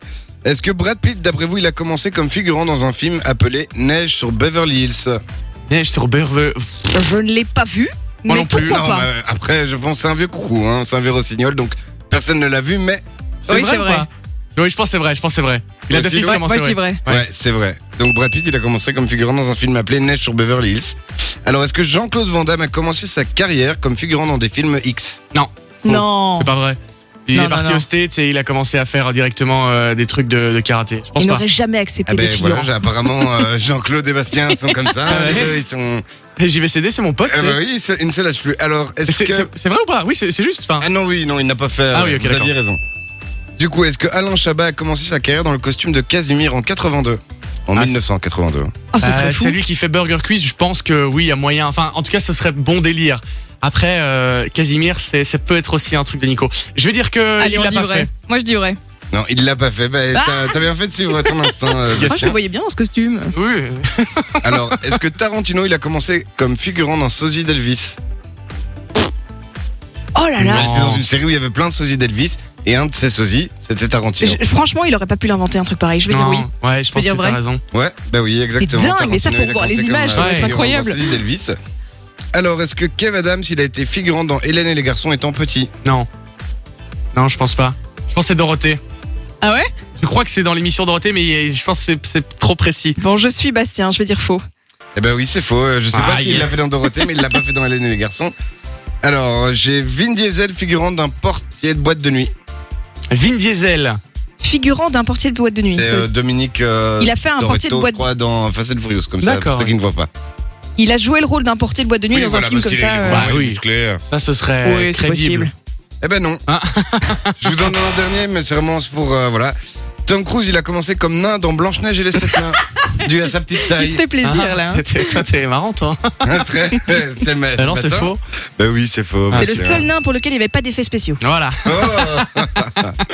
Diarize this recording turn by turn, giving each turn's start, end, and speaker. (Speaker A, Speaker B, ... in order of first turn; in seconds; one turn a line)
Speaker A: 0.4-5.2
Speaker B: 5.7-6.9
Speaker C: 6.9-9.1
Speaker B: 8.3-8.9
Speaker A: 8.6-13.0
Speaker B: 13.4-17.2
Speaker C: 13.5-14.1
Speaker A: 15.9-16.4
Speaker C: 16.2-17.0
Speaker A: 17.1-25.2
Speaker B: 25.3-31.4
Speaker C: 25.8-26.5
Speaker C: 27.3-27.9
Speaker C: 31.2-33.5
Speaker A: 32.0-36.0
Speaker C: 34.7-34.9
Speaker B: 35.1-35.5
Speaker B: 36.4-37.6
Speaker A: 37.2-39.5
Speaker B: 39.1-40.9
Speaker A: 40.8-42.8
Speaker B: 41.9-42.5
Speaker A: 43.6-48.7
Speaker B: 47.7-48.0
Speaker C: 48.9-49.6
Speaker B: 49.0-58.1
Speaker C: 57.4-58.8
Speaker A: 59.1-62.4
Speaker C: 60.1-60.6
Speaker C: 61.1-63.3
Speaker B: 61.9-62.3
Speaker B: 63.3-64.9
Speaker A: 64.4-68.0
Speaker C: 70.2-70.7
Speaker A: 70.4-74.4
Speaker B: 70.4-71.0
Speaker C: 74.2-77.4
Speaker B: 76.1-77.6
Speaker A: 77.7-81.5
Speaker C: 78.6-81.0
Speaker B: 80.1-80.6
Speaker A: 82.3-85.7
Speaker B: 87.1-88.8
Speaker C: 89.4-89.7
Speaker B: 90.0-93.0
Speaker C: 93.0-94.4
Speaker A: 95.0-98.3
Speaker B: 95.9-96.6
Speaker A: 99.0-102.3
Speaker B: 103.1-104.0
Speaker C: 104.4-106.1
Speaker A: 105.6-110.1
Speaker C: 107.0-108.0
Speaker B: 109.2-109.7
Speaker C: 110.8-113.3
Speaker A: 112.1-114.0
Speaker B: 113.1-115.5
Speaker C: 114.6-115.5
Speaker A: 116.0-116.4
Speaker B: 116.5-117.7
Speaker A: 117.4-119.5
Speaker A: 120.1-124.0
Speaker C: 123.7-125.2
Speaker B: 124.2-126.4
Speaker A: 126.2-129.8
Speaker B: 127.6-128.2
Speaker B: 129.3-129.5
Speaker C: 129.4-131.2
Speaker B: 131.2-132.9
Speaker A: 131.6-133.0